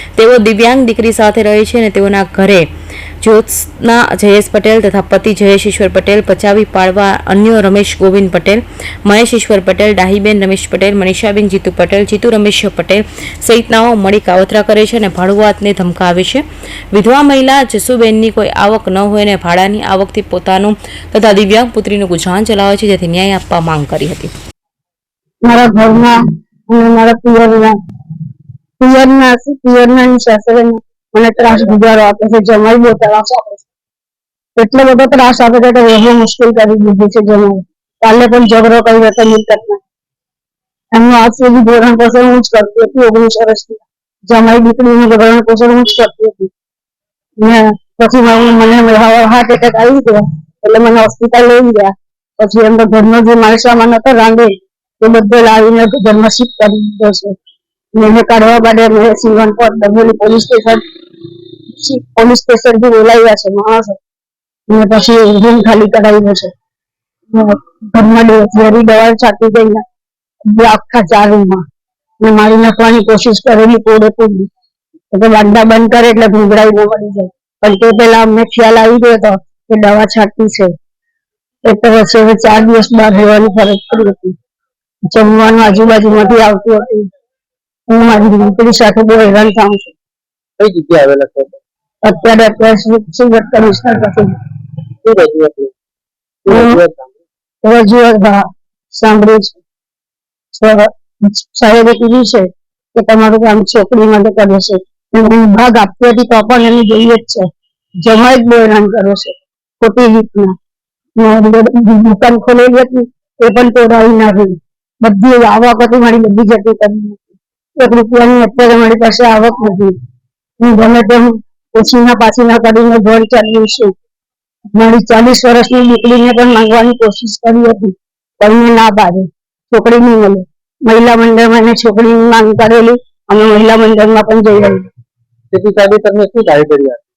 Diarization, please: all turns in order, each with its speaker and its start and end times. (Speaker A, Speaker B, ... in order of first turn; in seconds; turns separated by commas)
Speaker A: 0.2-2.7, Speaker A: 3.2-24.3, Speaker B: 25.4-26.2, Speaker B: 26.7-27.8, Speaker B: 28.8-33.7, Speaker B: 34.6-39.8, Speaker B: 40.9-46.5, Speaker B: 47.4-57.4, Speaker B: 57.9-60.8, Speaker B: 61.7-64.0, Speaker B: 64.7-66.5, Speaker B: 67.3-69.8, Speaker B: 70.5-71.6, Speaker B: 72.2-74.5, Speaker B: 75.1-80.7, Speaker B: 81.6-84.3, Speaker B: 85.1-87.1, Speaker B: 87.9-90.0, Speaker C: 90.6-91.6, Speaker B: 92.0-94.4, Speaker C: 95.0-95.7, Speaker C: 96.5-97.2, Speaker B: 96.5-96.8, Speaker B: 97.6-99.6, Speaker B: 100.5-107.5, Speaker B: 108.0-110.5, Speaker B: 111.2-120.0, Speaker B: 120.6-123.9, Speaker B: 124.8-134.9, Speaker C: 135.5-137.0